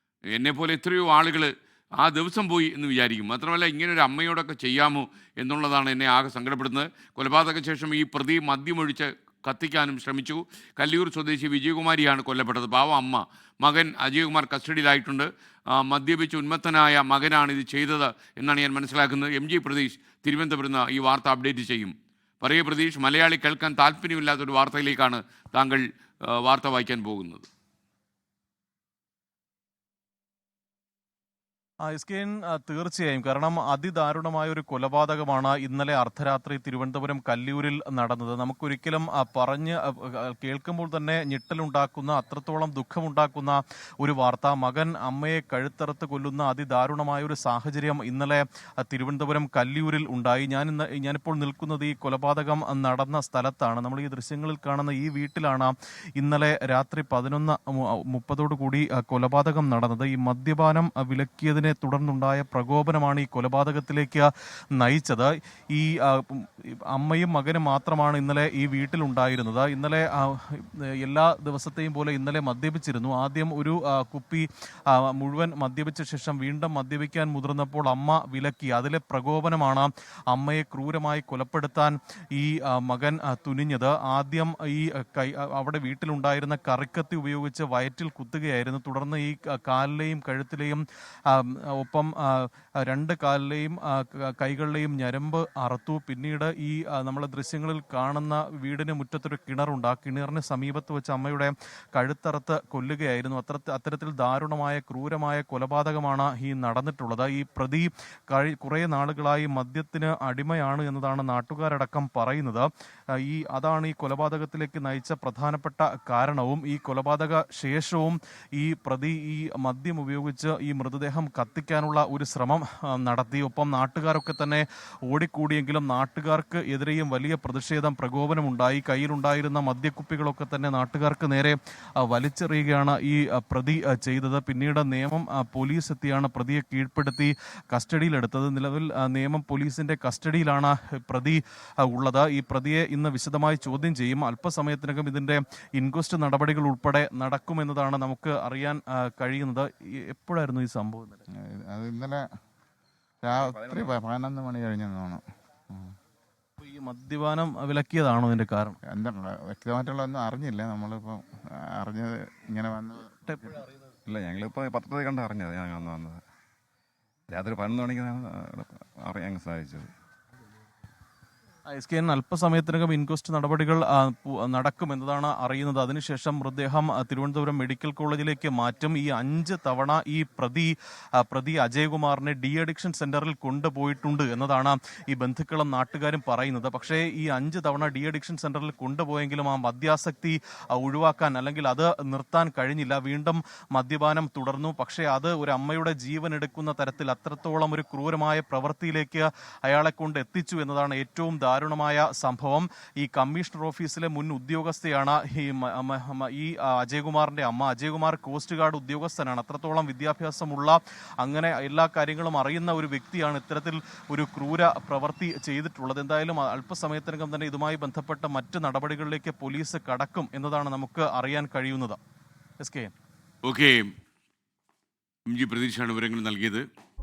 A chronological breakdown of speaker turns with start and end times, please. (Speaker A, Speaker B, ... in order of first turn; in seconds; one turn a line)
Speaker A: 0.3-27.4
Speaker B: 31.9-112.7
Speaker B: 113.2-151.2
Speaker C: 151.3-152.2
Speaker C: 153.2-155.9
Speaker D: 153.3-153.9
Speaker B: 156.6-158.8
Speaker C: 158.8-163.6
Speaker B: 163.3-163.6
Speaker D: 164.1-166.2
Speaker D: 167.3-169.9
Speaker B: 171.7-222.0
Speaker B: 222.6-222.9
Speaker A: 223.4-223.9
Speaker A: 225.3-226.7